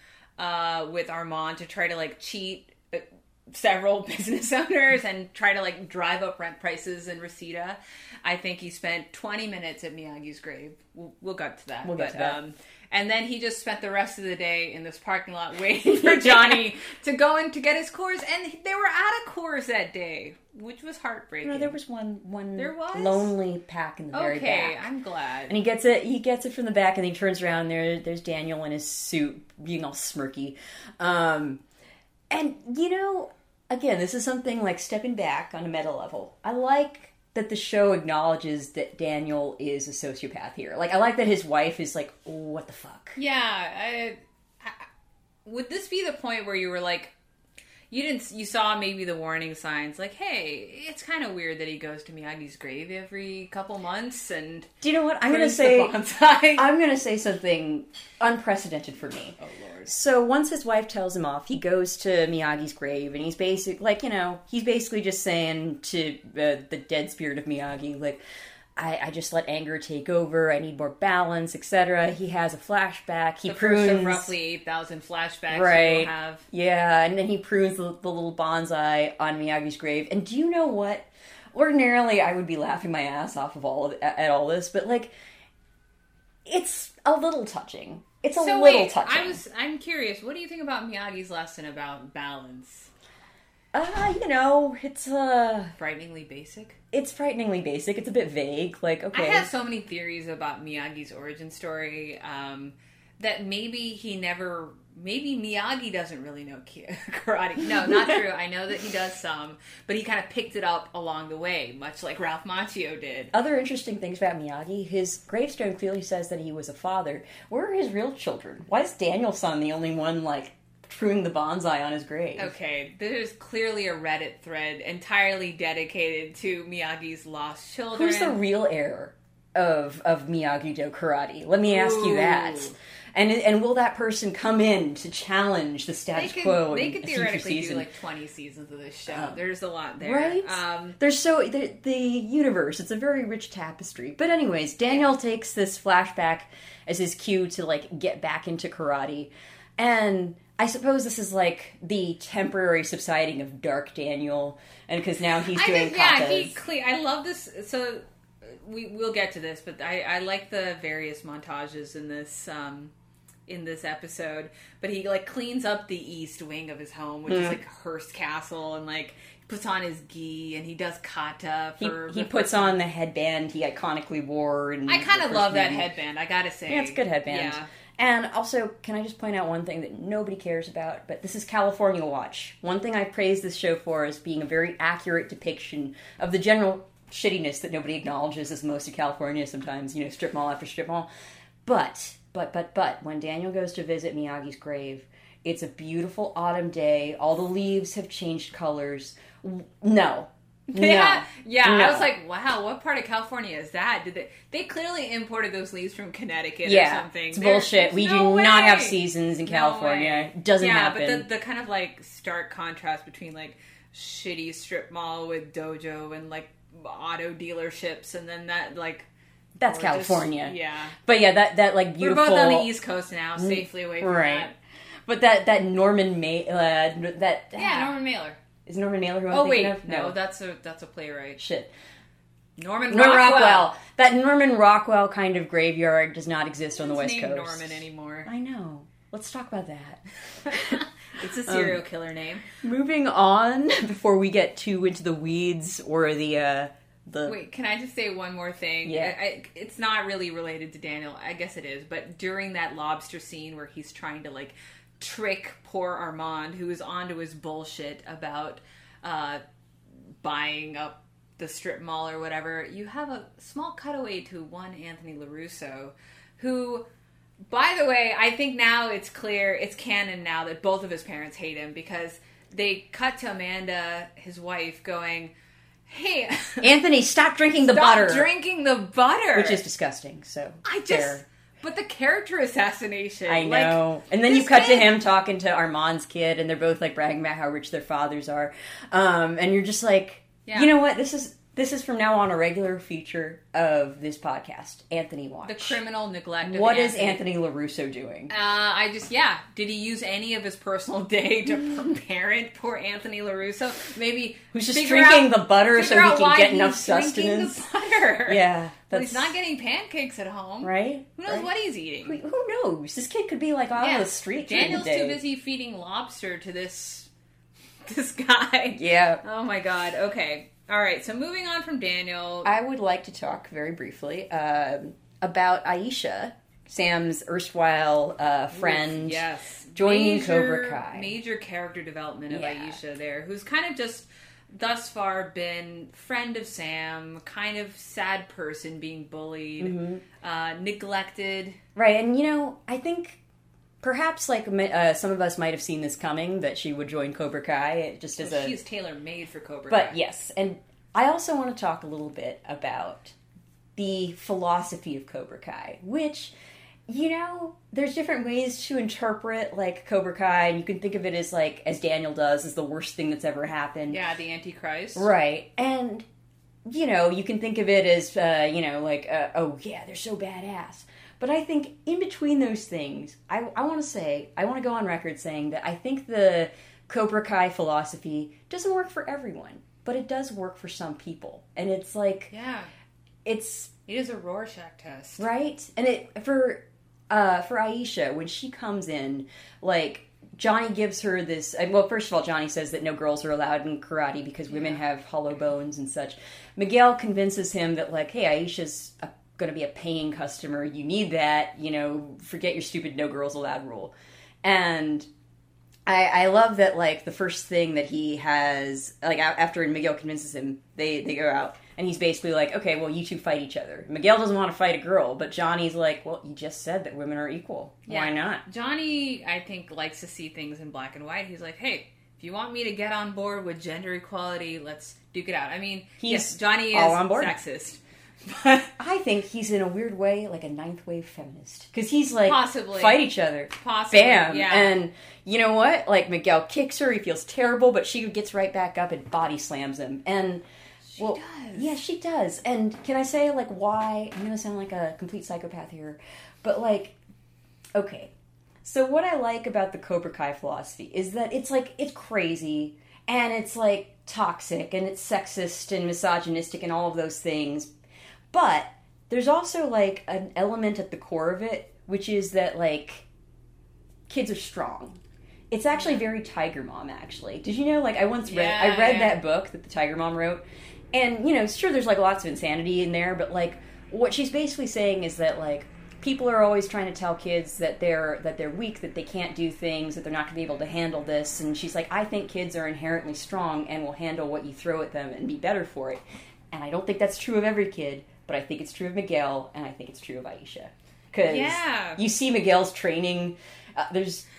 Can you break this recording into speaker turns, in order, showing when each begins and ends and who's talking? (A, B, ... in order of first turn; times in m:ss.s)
0:00.4-0:21.8 A
0:11.8-0:12.4 B
0:15.9-0:16.6 B
0:21.4-0:24.9 B
0:22.6-0:23.3 A
0:24.1-0:25.6 A
0:25.5-0:31.6 B
0:32.3-0:43.2 B
0:43.2-0:44.9 A
0:45.4-0:47.1 A
0:47.9-0:54.7 A
0:54.8-0:56.0 B
0:55.2-0:56.7 A
0:56.5-1:08.2 B
0:59.4-0:59.9 A
1:08.8-1:14.3 B
1:13.4-1:16.5 A
1:15.5-1:25.1 B
1:26.4-1:29.4 B
1:28.4-1:32.9 A
1:33.7-1:35.7 B
1:35.8-1:36.8 A
1:36.9-1:39.5 B
1:39.1-1:53.3 A
1:53.3-2:02.5 B
2:02.4-2:08.4 A
2:07.9-2:17.9 B
2:11.6-2:12.7 A
2:16.1-2:21.0 A
2:19.1-2:19.4 B
2:20.0-2:36.6 B
2:35.5-2:42.9 A
2:43.5-2:52.8 A
2:47.3-2:47.6 B
2:51.8-2:55.9 B
2:54.9-2:57.7 A
2:56.7-3:11.1 B
3:11.6-3:22.1 B
3:20.7-3:39.1 A
3:26.6-3:31.3 B
3:39.6-3:42.7 B
3:39.6-3:41.0 A
3:42.0-3:44.5 A
3:43.4-3:44.5 B
3:45.0-3:48.0 B
3:47.5-3:48.4 A
3:48.6-3:50.2 B
3:49.3-3:51.4 A
3:51.4-3:51.7 B
3:52.6-3:53.7 A
3:52.9-4:00.8 B
3:56.7-3:58.3 A
4:00.5-4:02.4 A
4:01.4-4:01.8 B
4:02.6-4:07.4 B
4:07.2-4:19.4 A
4:08.8-4:09.2 B
4:20.2-4:26.8 A
4:27.5-4:35.3 A
4:35.9-4:36.7 A
4:36.6-4:38.3 B
4:37.6-4:39.6 A
4:39.3-4:41.2 B
4:40.6-4:44.9 A
4:43.3-4:55.8 B
4:50.5-4:50.7 A
4:55.4-4:57.2 A
4:56.4-4:58.3 B
4:58.3-5:12.2 A
5:04.5-5:07.6 B
5:08.3-5:09.4 B
5:10.6-5:11.5 B
5:12.0-5:15.2 B
5:13.8-5:17.1 A
5:17.8-5:22.5 A
5:18.7-5:19.2 B
5:22.4-5:31.1 B
5:28.5-5:41.6 A
5:32.3-5:32.8 B
5:39.6-5:40.0 B
5:41.7-5:43.2 B
5:43.8-5:48.6 B
5:48.2-5:50.0 A
5:49.7-5:53.1 B
5:53.8-5:56.3 B
5:56.9-6:04.0 B
6:03.9-6:05.1 A
6:05.0-6:06.0 B
6:06.6-6:22.3 B
6:22.3-6:22.7 A
6:23.2-6:23.7 B
6:23.9-6:25.3 A
6:25.2-6:45.1 B
6:34.5-6:34.8 A
6:45.8-6:58.4 B
6:57.9-7:08.7 A
7:06.0-7:07.3 B
7:08.8-7:20.4 B
7:12.2-7:14.7 A
7:20.9-7:21.8 A
7:21.0-7:27.0 B
7:27.7-7:28.1 B
7:28.6-7:37.7 B
7:38.3-7:43.0 B
7:44.1-7:45.0 B
7:45.5-8:14.2 B
7:48.2-7:49.2 A
8:11.2-8:12.0 A